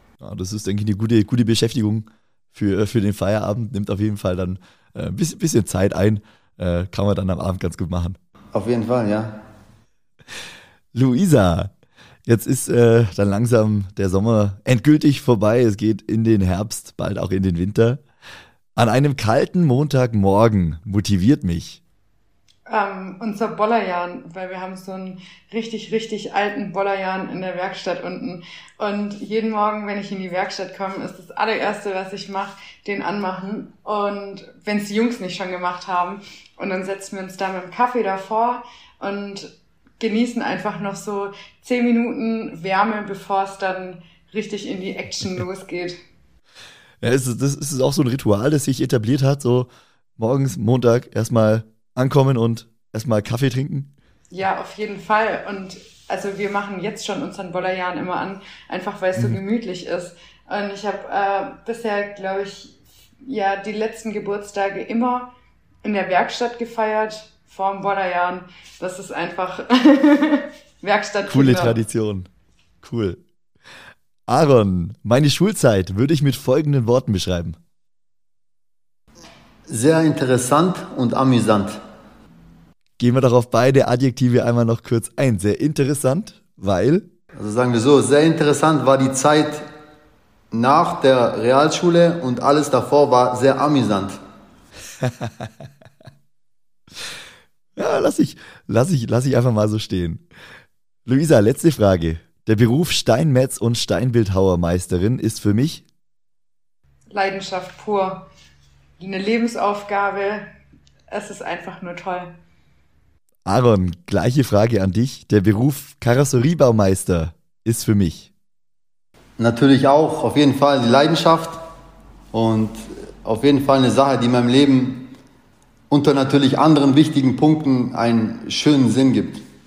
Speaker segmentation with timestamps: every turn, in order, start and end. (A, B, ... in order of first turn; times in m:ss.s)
0:00.2-0:08.2 A
0:08.5-0:09.4 B
0:10.9-0:11.7 A
0:12.3-0:18.0 A
0:18.8-0:21.8 A
0:22.7-0:46.0 C
0:47.0-0:53.9 A
0:54.3-1:05.3 C
1:05.8-1:11.8 C
1:11.3-1:12.3 A
1:12.8-1:13.2 A
1:14.3-1:17.6 A
1:19.7-1:21.8 B
1:23.0-1:27.1 A
1:27.4-1:29.7 B
1:30.5-1:34.2 B
1:35.0-1:35.3 A
1:37.8-1:40.2 A
1:41.1-1:45.8 A
1:47.1-1:48.3 C
1:49.0-1:50.5 C
1:51.1-1:52.3 C
1:53.5-1:58.3 A
1:59.4-2:01.6 B
2:02.3-2:05.1 B
2:05.9-2:09.4 B